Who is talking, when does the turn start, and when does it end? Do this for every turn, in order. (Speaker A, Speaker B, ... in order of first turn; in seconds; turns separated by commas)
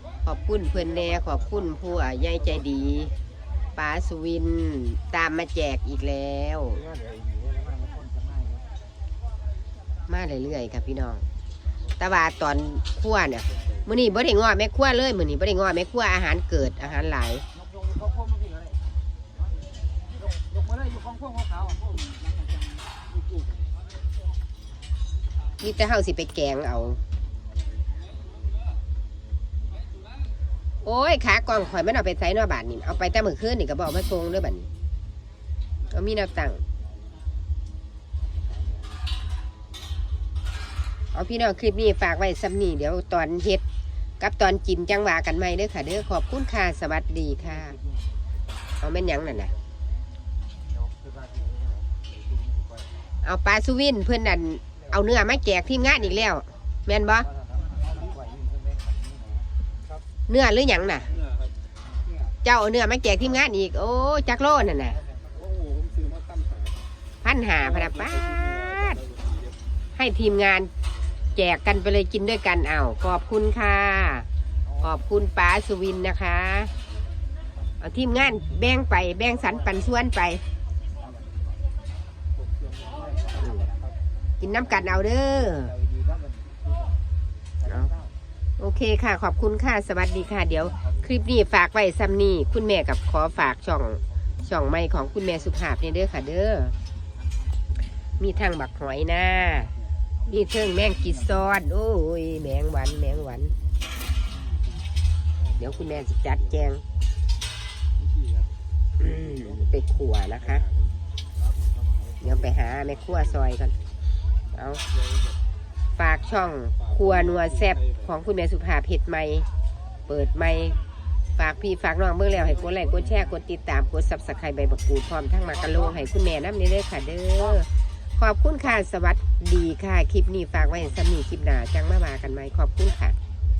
Speaker A: 0.2-3.1, Speaker A: 3.8-6.9, Speaker B: 6.8-8.6, Speaker A: 10.1-11.2, Speaker A: 12.0-17.4, Speaker B: 17.6-18.7, Speaker B: 20.2-22.3, Speaker A: 25.6-27.0, Speaker A: 30.8-34.7, Speaker A: 35.9-36.6, Speaker A: 41.1-43.6, Speaker A: 44.2-47.8, Speaker A: 48.8-49.5, Speaker B: 50.7-52.8, Speaker A: 53.2-57.3, Speaker B: 57.2-59.4, Speaker A: 60.3-61.1, Speaker A: 62.4-65.0, Speaker B: 64.6-65.5, Speaker C: 65.5-66.8, Speaker A: 67.2-69.0, Speaker C: 67.8-69.5, Speaker A: 70.0-70.7, Speaker A: 71.3-74.3, Speaker A: 74.8-76.7, Speaker A: 77.8-80.4, Speaker B: 82.6-83.7, Speaker A: 83.4-83.6, Speaker A: 84.4-85.7, Speaker B: 84.8-86.9, Speaker B: 87.6-88.1, Speaker A: 87.6-87.9, Speaker A: 88.6-96.7, Speaker B: 97.3-97.9, Speaker A: 98.2-99.7, Speaker A: 100.2-103.5, Speaker B: 100.8-101.1, Speaker A: 105.6-106.8, Speaker C: 108.2-108.4, Speaker A: 109.0-110.6, Speaker A: 112.2-113.7, Speaker A: 114.5-114.8, Speaker A: 116.0-119.5, Speaker C: 117.6-117.9, Speaker A: 120.1-120.8, Speaker A: 121.4-133.2, Speaker B: 122.4-123.3